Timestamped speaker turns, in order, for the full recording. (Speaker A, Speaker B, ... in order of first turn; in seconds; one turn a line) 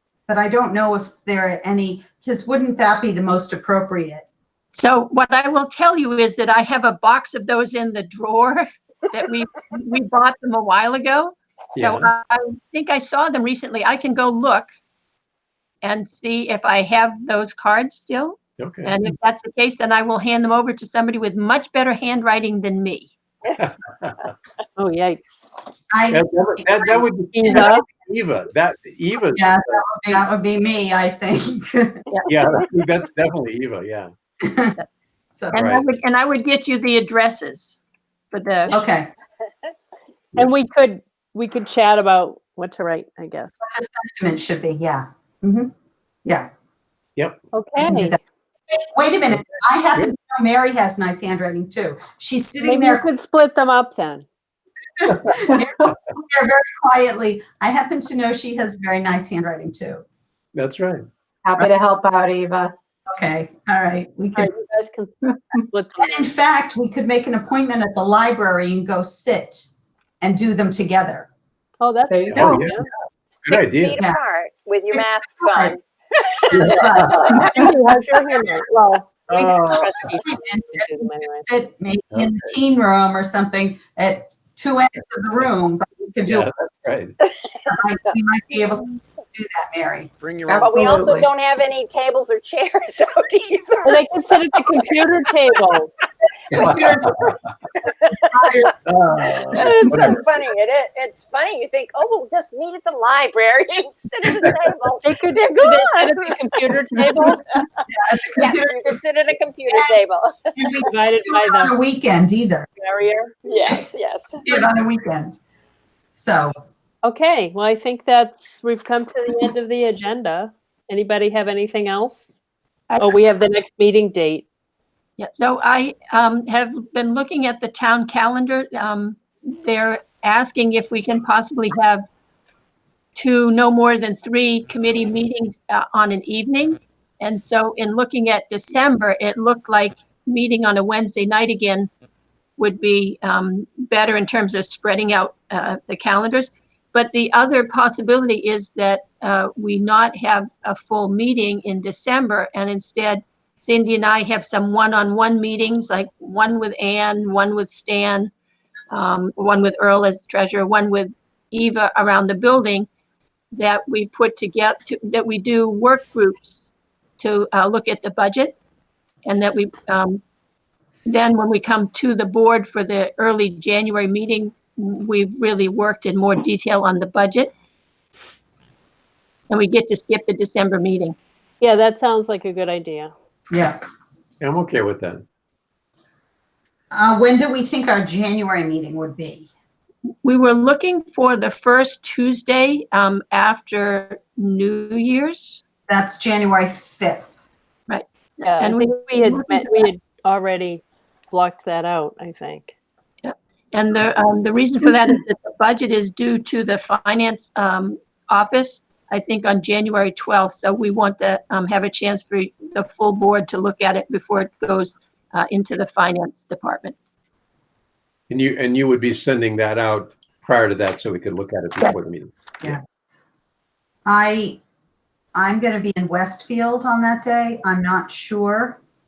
Speaker A: 0.3-4.2
Speaker B: 4.7-14.7
Speaker C: 11.8-12.1
Speaker B: 15.8-23.1
Speaker C: 18.6-19.0
Speaker C: 23.6-24.3
Speaker D: 24.8-25.5
Speaker A: 25.9-27.6
Speaker C: 26.1-29.8
Speaker D: 27.3-27.9
Speaker A: 29.4-32.0
Speaker C: 32.3-34.1
Speaker A: 34.4-34.8
Speaker A: 35.3-35.6
Speaker B: 35.5-37.8
Speaker C: 35.5-35.8
Speaker B: 38.3-38.7
Speaker A: 38.7-39.1
Speaker D: 40.4-43.6
Speaker A: 43.6-45.7
Speaker D: 47.5-48.2
Speaker A: 47.8-48.2
Speaker A: 48.7-53.0
Speaker D: 52.6-54.2
Speaker A: 55.0-60.0
Speaker C: 60.5-61.1
Speaker E: 61.4-62.7
Speaker A: 63.1-64.5
Speaker D: 64.3-66.3
Speaker A: 66.0-69.7
Speaker A: 70.2-71.3
Speaker D: 71.8-72.9
Speaker E: 72.1-72.7
Speaker C: 72.3-72.8
Speaker C: 73.4-74.0
Speaker F: 73.5-78.5
Speaker A: 74.9-75.8
Speaker C: 76.5-77.4
Speaker A: 76.7-77.6
Speaker D: 77.5-81.5
Speaker A: 79.3-86.5
Speaker C: 79.3-79.8
Speaker C: 82.1-82.5
Speaker C: 86.2-87.2
Speaker A: 87.7-90.1
Speaker E: 90.2-91.3
Speaker F: 90.5-94.8
Speaker D: 93.8-95.9
Speaker A: 96.5-97.3
Speaker C: 96.6-97.3
Speaker A: 98.3-98.7
Speaker C: 98.8-100.3
Speaker F: 99.5-107.8
Speaker D: 105.0-107.6
Speaker A: 107.9-109.0
Speaker F: 108.4-110.8
Speaker A: 109.7-109.9
Speaker A: 110.5-112.7
Speaker D: 110.9-111.8
Speaker D: 112.8-113.3
Speaker F: 113.5-114.5
Speaker A: 114.4-115.4
Speaker A: 116.1-116.5
Speaker D: 117.0-122.4
Speaker D: 123.0-124.5
Speaker B: 125.2-132.1
Speaker B: 133.2-141.9
Speaker B: 142.6-158.3
Speaker B: 158.9-162.9
Speaker B: 163.5-168.6
Speaker B: 169.2-170.2
Speaker B: 171.1-177.5
Speaker B: 179.5-181.2
Speaker D: 181.6-183.1
Speaker A: 183.5-183.8
Speaker C: 184.4-185.2
Speaker A: 186.9-189.5
Speaker B: 190.2-195.6
Speaker A: 195.9-197.3
Speaker B: 197.9-199.9
Speaker D: 198.4-202.7
Speaker B: 203.2-216.9
Speaker C: 218.3-222.8
Speaker A: 224.1-224.6
Speaker A: 225.3-228.8